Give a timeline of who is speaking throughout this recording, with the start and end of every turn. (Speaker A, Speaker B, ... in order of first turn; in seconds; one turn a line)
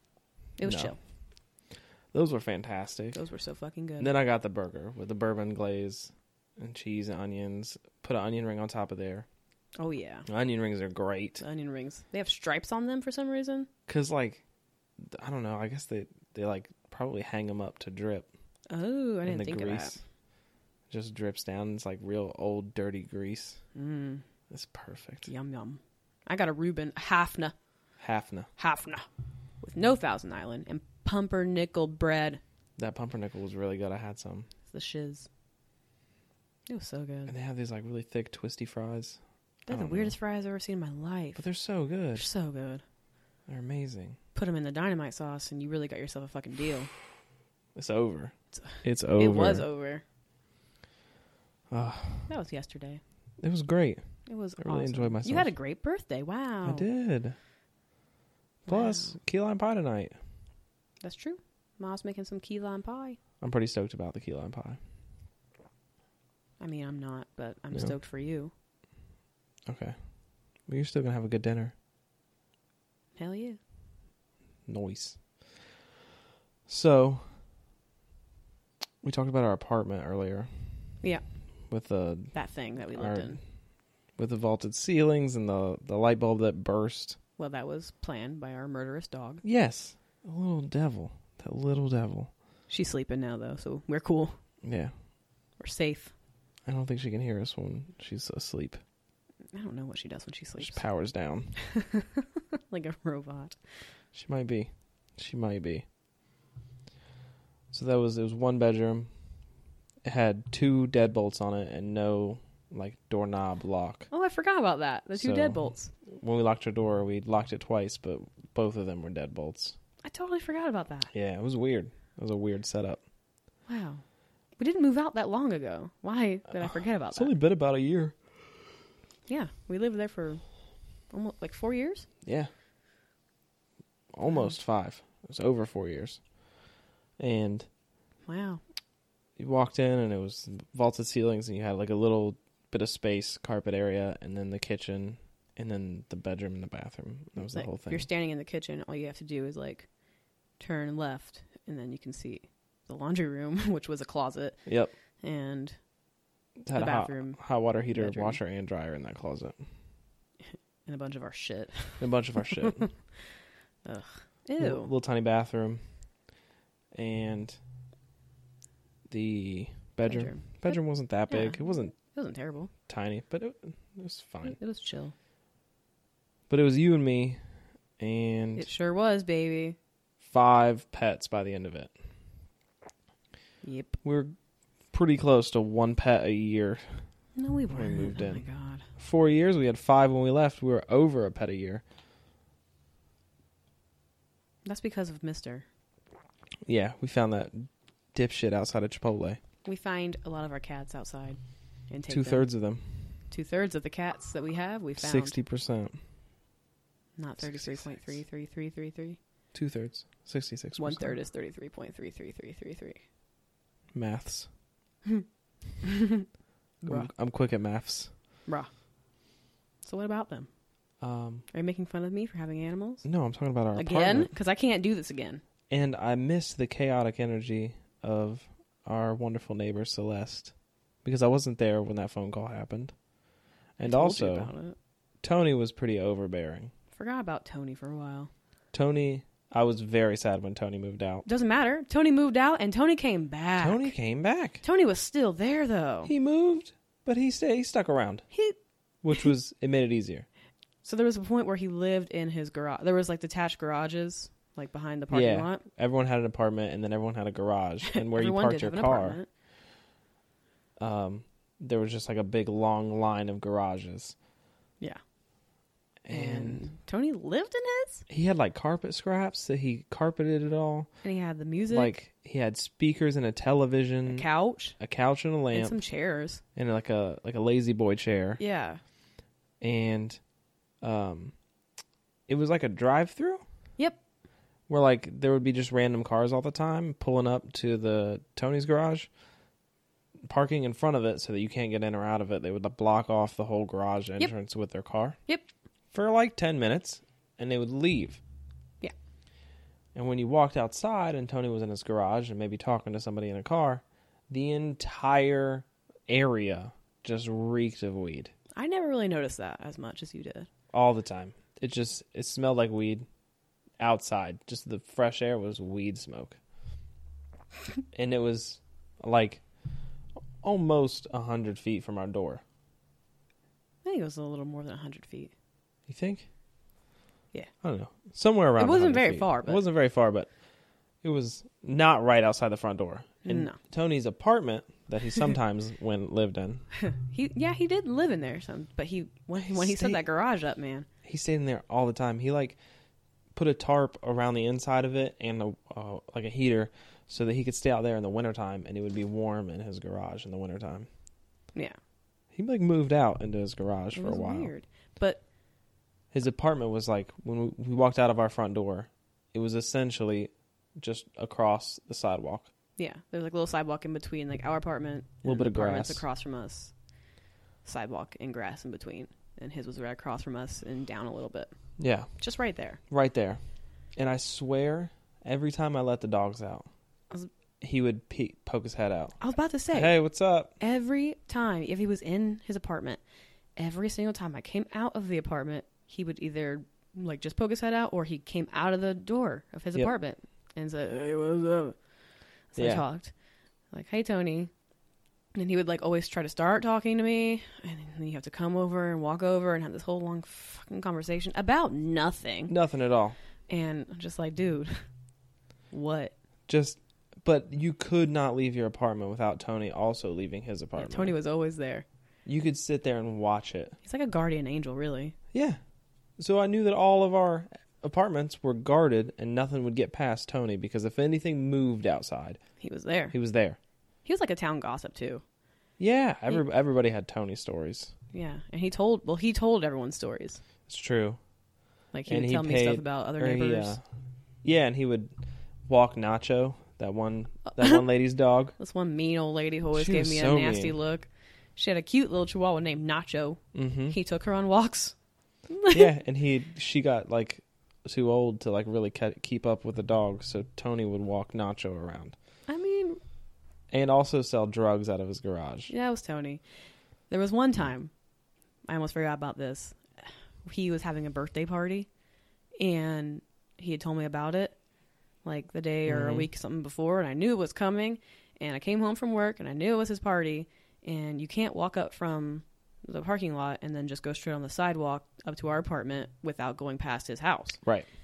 Speaker A: 0.6-1.0
Speaker B: 0.6-0.9
Speaker B: 2.1-3.2
Speaker A: 3.1-4.1
Speaker B: 4.0-9.3
Speaker A: 9.8-10.3
Speaker B: 10.3-11.4
Speaker A: 11.4-13.7
Speaker B: 13.9-14.4
Speaker B: 15.0-18.3
Speaker A: 18.7-20.0
Speaker B: 19.2-20.0
Speaker B: 20.9-23.6
Speaker A: 23.8-24.2
Speaker B: 24.5-25.3
Speaker A: 25.3-27.5
Speaker B: 28.0-28.5
Speaker A: 28.6-29.1
Speaker A: 29.6-32.4
Speaker B: 32.8-34.5
Speaker A: 34.7-35.3
Speaker A: 36.7-37.3
Speaker B: 37.3-39.2
Speaker A: 39.7-41.4
Speaker B: 39.7-40.1
Speaker B: 41.4-42.3
Speaker A: 42.1-42.8
Speaker B: 43.5-44.2
Speaker A: 44.4-46.9
Speaker B: 47.8-49.6
Speaker A: 48.5-50.0
Speaker B: 51.7-52.3
Speaker A: 52.3-53.0
Speaker B: 53.4-54.0
Speaker A: 54.3-56.9
Speaker B: 54.6-55.5
Speaker B: 56.6-57.4
Speaker A: 58.7-59.2
Speaker B: 58.7-60.1
Speaker A: 61.0-63.2
Speaker B: 63.4-64.8
Speaker A: 66.6-68.5
Speaker B: 69.7-70.0
Speaker B: 70.7-71.7
Speaker A: 73.2-73.6
Speaker B: 74.7-75.3
Speaker B: 76.7-77.2
Speaker B: 79.0-80.5
Speaker B: 81.7-82.3
Speaker A: 82.3-83.4
Speaker B: 82.9-83.4
Speaker B: 84.2-87.2
Speaker A: 87.4-89.4
Speaker B: 89.4-92.3
Speaker A: 92.7-94.3
Speaker B: 94.6-94.9
Speaker A: 95.6-96.1
Speaker B: 96.7-98.8
Speaker A: 99.5-100.8
Speaker B: 100.6-101.5
Speaker A: 101.6-103.6
Speaker B: 104.1-105.8
Speaker B: 107.7-109.1
Speaker B: 110.0-114.1
Speaker A: 114.1-115.9
Speaker B: 115.2-119.8
Speaker A: 120.0-121.1
Speaker B: 121.1-123.0
Speaker A: 123.7-124.0
Speaker A: 124.6-127.3
Speaker B: 126.6-128.2
Speaker A: 129.3-130.4
Speaker A: 131.1-132.1
Speaker B: 132.2-132.5
Speaker B: 134.1-136.2
Speaker B: 137.2-137.7
Speaker A: 138.3-138.6
Speaker B: 139.4-148.1
Speaker A: 147.4-149.9
Speaker A: 150.6-154.7
Speaker B: 154.7-154.9
Speaker A: 155.2-155.8
Speaker B: 156.7-159.6
Speaker A: 156.8-157.4
Speaker A: 157.9-158.4
Speaker A: 160.9-163.3
Speaker B: 162.0-162.8
Speaker A: 163.8-164.9
Speaker B: 164.6-165.8
Speaker B: 166.9-167.6
Speaker B: 169.1-171.9
Speaker A: 170.1-172.7
Speaker B: 172.9-174.6
Speaker A: 174.4-175.1
Speaker B: 176.5-177.4
Speaker B: 178.0-178.7
Speaker A: 178.6-179.8
Speaker B: 180.2-181.9
Speaker A: 183.6-184.0
Speaker B: 184.0-184.3
Speaker B: 184.9-187.1
Speaker A: 187.4-188.9
Speaker B: 187.7-188.4
Speaker B: 189.0-191.8
Speaker A: 194.7-195.7
Speaker B: 196.7-199.4
Speaker A: 199.7-201.4
Speaker A: 201.9-202.5
Speaker B: 202.1-202.9
Speaker A: 203.3-205.4
Speaker B: 205.0-206.0
Speaker A: 207.2-209.2
Speaker B: 207.4-208.0
Speaker B: 209.5-211.2
Speaker A: 210.8-213.0
Speaker B: 213.9-214.5
Speaker A: 215.8-216.3
Speaker A: 216.8-217.1
Speaker B: 216.8-218.1
Speaker A: 219.8-220.5
Speaker B: 221.0-221.5
Speaker A: 221.5-223.1
Speaker B: 223.0-224.3
Speaker A: 223.8-225.4
Speaker B: 225.7-230.5
Speaker B: 231.0-232.9
Speaker B: 233.8-234.5
Speaker A: 233.8-234.8
Speaker B: 235.2-236.7
Speaker A: 236.9-238.3
Speaker B: 238.7-241.2
Speaker A: 241.2-243.9
Speaker B: 243.6-244.6
Speaker A: 244.6-246.1
Speaker B: 246.1-248.3
Speaker B: 249.0-250.3
Speaker A: 250.8-255.6
Speaker B: 255.1-259.2
Speaker A: 257.9-259.3
Speaker B: 260.8-264.1
Speaker B: 266.1-266.6
Speaker A: 266.1-268.1
Speaker B: 268.1-270.9
Speaker A: 271.0-271.9
Speaker B: 271.7-274.3
Speaker A: 274.1-274.8
Speaker B: 274.8-275.8
Speaker A: 275.5-276.4
Speaker B: 276.6-278.4
Speaker A: 278.4-278.8
Speaker B: 279.6-280.2
Speaker B: 280.8-281.3
Speaker B: 282.3-283.4
Speaker B: 284.7-289.1
Speaker B: 290.2-295.2
Speaker B: 295.9-298.2
Speaker B: 299.9-308.3
Speaker A: 308.6-310.5
Speaker B: 310.7-313.1
Speaker B: 313.8-316.4
Speaker B: 317.9-319.4
Speaker B: 320.4-322.4
Speaker A: 323.8-325.3
Speaker B: 325.9-326.3
Speaker B: 327.6-330.3
Speaker A: 328.6-329.6
Speaker B: 331.0-336.6
Speaker A: 333.2-333.6
Speaker A: 336.8-340.9
Speaker B: 339.4-340.0
Speaker B: 341.1-342.6
Speaker B: 343.4-350.9
Speaker B: 352.3-354.5
Speaker A: 353.9-355.2
Speaker B: 356.1-362.5
Speaker A: 362.8-366.7
Speaker B: 365.2-366.0
Speaker A: 367.6-371.5
Speaker B: 371.8-372.1
Speaker A: 372.2-372.8
Speaker B: 372.9-373.4
Speaker B: 374.0-376.7
Speaker B: 377.6-379.2
Speaker A: 379.2-380.0
Speaker B: 379.7-380.5
Speaker A: 380.6-383.0
Speaker A: 383.6-391.8
Speaker A: 392.5-393.1
Speaker B: 392.6-392.8
Speaker A: 393.7-394.5
Speaker A: 395.4-402.5
Speaker B: 402.5-403.2
Speaker A: 403.5-404.7
Speaker A: 405.7-406.1
Speaker B: 406.5-411.1
Speaker A: 410.8-411.9
Speaker B: 412.3-413.8
Speaker A: 413.9-415.1
Speaker B: 415.3-415.6
Speaker B: 416.2-422.4
Speaker A: 422.6-423.1
Speaker B: 423.1-423.6
Speaker A: 424.1-425.2
Speaker B: 425.8-427.9
Speaker A: 428.1-430.4
Speaker B: 430.7-431.2
Speaker A: 431.9-433.8
Speaker B: 432.1-433.8
Speaker B: 434.4-435.1
Speaker B: 435.7-438.5
Speaker A: 437.5-437.9
Speaker A: 438.6-444.9
Speaker B: 439.7-440.8
Speaker B: 443.5-444.0
Speaker A: 445.5-445.9
Speaker B: 445.7-452.1
Speaker A: 452.5-453.0
Speaker B: 453.7-455.7
Speaker A: 455.7-456.4
Speaker A: 457.1-457.9
Speaker A: 458.7-461.9
Speaker A: 462.6-464.6
Speaker A: 465.2-477.6
Speaker B: 465.9-466.3